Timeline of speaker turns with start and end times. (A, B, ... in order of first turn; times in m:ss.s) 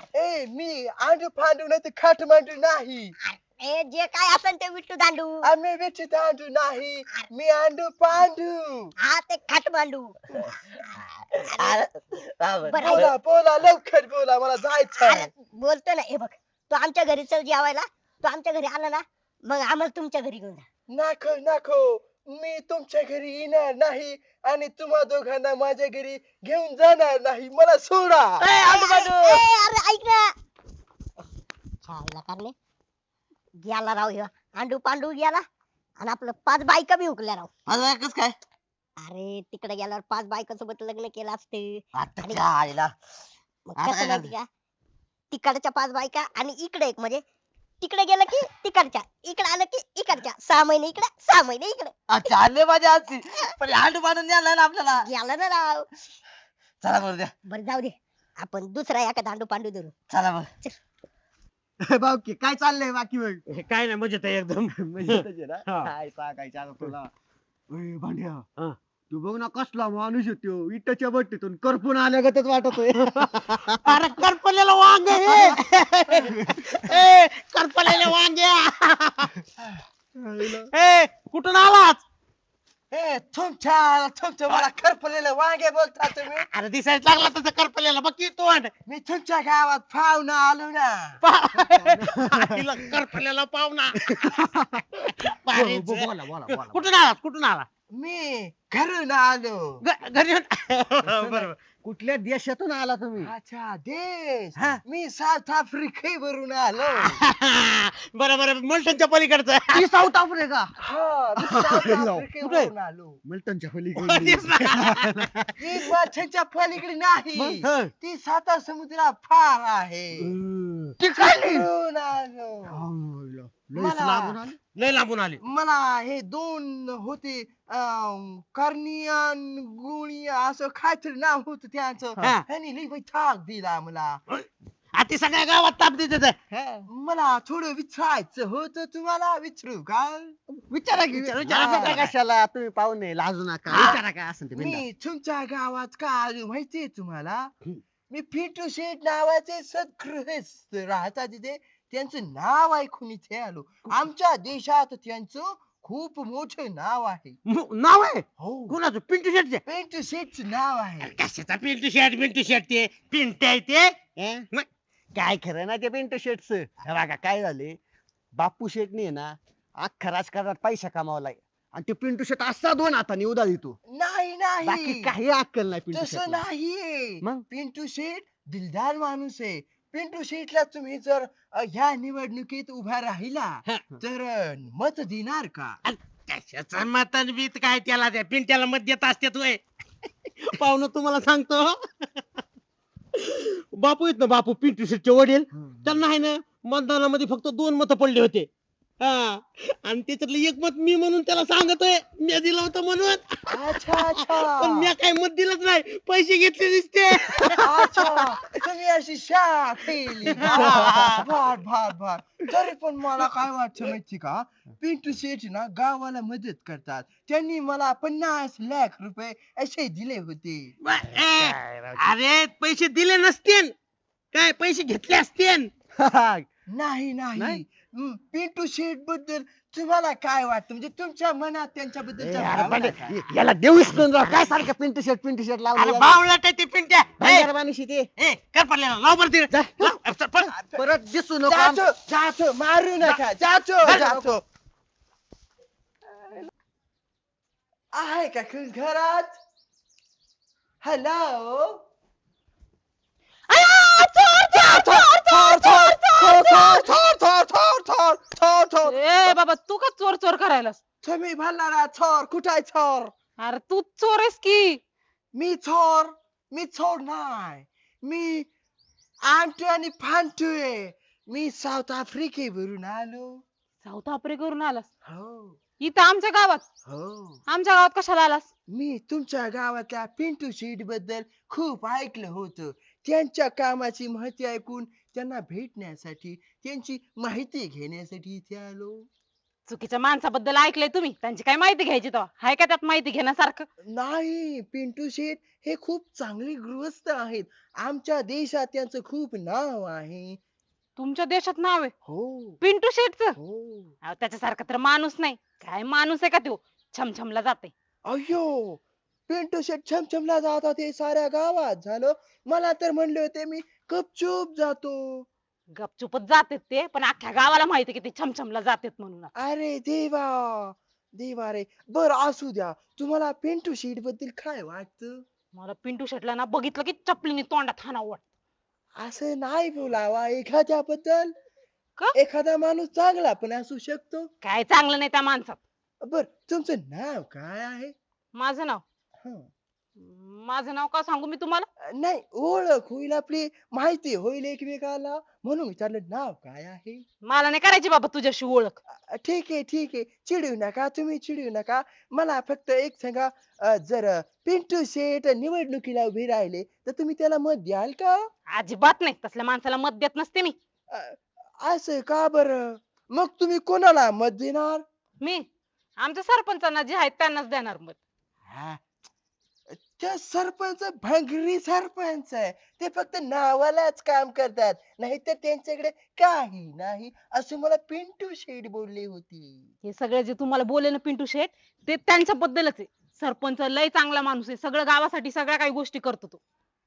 0:00.1-0:03.1 A
0:03.3-0:05.4 B
0:05.4-0:08.9 A
0:09.0-0:10.2 B
0:11.5-0:11.8 B
0:11.6-0:13.1 C
0:12.7-0:13.1 B
0:12.8-0:15.3 A
0:14.9-0:20.6 B
0:20.9-0:28.5 A
0:28.4-0:29.4 C
0:28.6-0:30.3 B
0:31.8-0:32.5 B
0:33.6-0:35.4 B
0:36.0-0:37.5 B
0:37.7-0:38.4 C
0:39.0-0:42.4 B
0:42.0-0:42.9 C
0:43.7-0:44.5 B
0:43.8-0:44.3 C
0:45.3-0:47.2 B
0:47.8-0:52.0 B
0:52.1-0:55.1 C
0:55.0-0:55.9 B
0:56.8-0:57.3 C
0:57.5-0:59.9 B
1:00.2-1:00.5 C
1:01.8-1:03.4 D
1:03.5-1:05.9 E
1:04.8-1:07.1 D
1:07.7-1:08.4 D
1:09.1-1:14.0 D
1:13.0-1:13.3 E
1:13.8-1:19.3 E
1:16.3-1:16.7 D
1:19.6-1:20.7 A
1:20.4-1:22.0 E
1:22.9-1:26.5 A
1:26.5-1:28.7 E
1:28.9-1:31.2 A
1:31.2-1:34.3 E
1:32.0-1:32.5 D
1:35.2-1:37.7 E
1:35.5-1:36.9 D
1:37.9-1:39.8 A
1:39.8-1:41.5 E
1:41.0-1:43.3 D
1:43.2-1:47.2 A
1:47.1-1:49.9 E
1:49.7-1:50.7 D
1:50.8-1:53.2 A
1:51.6-1:52.3 D
1:52.4-1:52.7 E
1:53.2-1:55.5 D
1:54.0-1:55.2 E
1:55.6-2:00.4 A
1:57.4-1:57.9 D
2:00.3-2:01.7 D
2:01.0-2:02.9 A
2:02.7-2:04.6 D
2:03.7-2:04.4 A
2:04.7-2:05.4 E
2:05.4-2:14.2 A
2:14.9-2:16.4 E
2:16.5-2:16.9 D
2:16.9-2:22.1 A
2:20.8-2:24.8 D
2:24.6-2:27.5 A
2:28.1-2:37.4 A
2:37.5-2:38.2 E
2:38.4-2:38.8 A
2:38.7-2:39.6 D
2:39.7-2:41.2 A
2:41.0-2:44.0 E
2:44.1-2:44.4 D
2:45.2-2:47.8 D
2:48.4-2:53.8 D
2:53.9-2:55.1 A
2:54.7-2:56.4 D
2:55.9-3:05.8 A
3:05.8-3:09.6 E
3:10.4-3:11.8 E
3:13.2-3:18.5 E
3:15.5-3:16.0 A
3:19.0-3:23.4 E
3:23.5-3:25.0 A
3:24.0-3:28.3 E
3:27.6-3:40.7 A
3:30.3-3:31.3 E
3:40.8-3:43.7 E
3:44.3-3:45.7 E
3:46.0-3:46.4 D
3:46.7-3:53.3 A
3:52.2-3:56.2 D
3:53.9-3:54.6 E
3:55.7-3:57.5 E
3:57.2-3:58.1 D
3:58.2-4:00.5 E
3:59.5-4:00.0 D
4:00.4-4:00.9 A
4:00.7-4:01.8 D
4:01.4-4:04.4 A
4:03.8-4:04.2 E
4:07.9-4:09.4 A
4:10.8-4:11.8 A
4:13.6-4:16.7 F
4:14.4-4:19.4 A
4:18.9-4:20.8 F
4:21.0-4:23.1 A
4:23.4-4:24.8 F
4:25.3-4:28.5 A
4:29.2-4:33.4 A
4:33.8-4:34.9 F
4:35.0-4:35.6 A
4:35.8-4:36.6 F
4:36.9-4:37.4 A
4:37.5-4:38.5 F
4:38.7-4:49.1 A
4:49.7-4:53.7 F
4:53.8-5:00.4 A
5:01.0-5:01.9 F
5:02.0-5:02.6 A
5:02.6-5:03.4 F
5:03.4-5:03.9 A
5:04.0-5:07.7 F
5:08.0-5:15.3 A
5:15.8-5:19.3 F
5:19.4-5:25.2 A
5:25.5-5:28.2 F
5:29.0-5:31.3 A
5:32.2-5:34.3 A
5:34.4-5:35.6 F
5:36.0-5:37.9 A
5:38.4-5:38.8 F
5:39.2-5:39.5 A
5:40.0-5:41.7 F
5:41.8-5:47.0 A
5:47.2-5:48.8 F
5:48.9-5:58.3 A
5:58.5-6:00.6 F
6:00.9-6:04.8 A
6:06.0-6:08.0 F
6:08.5-6:08.8 A
6:09.7-6:19.7 A
6:19.8-6:26.4 F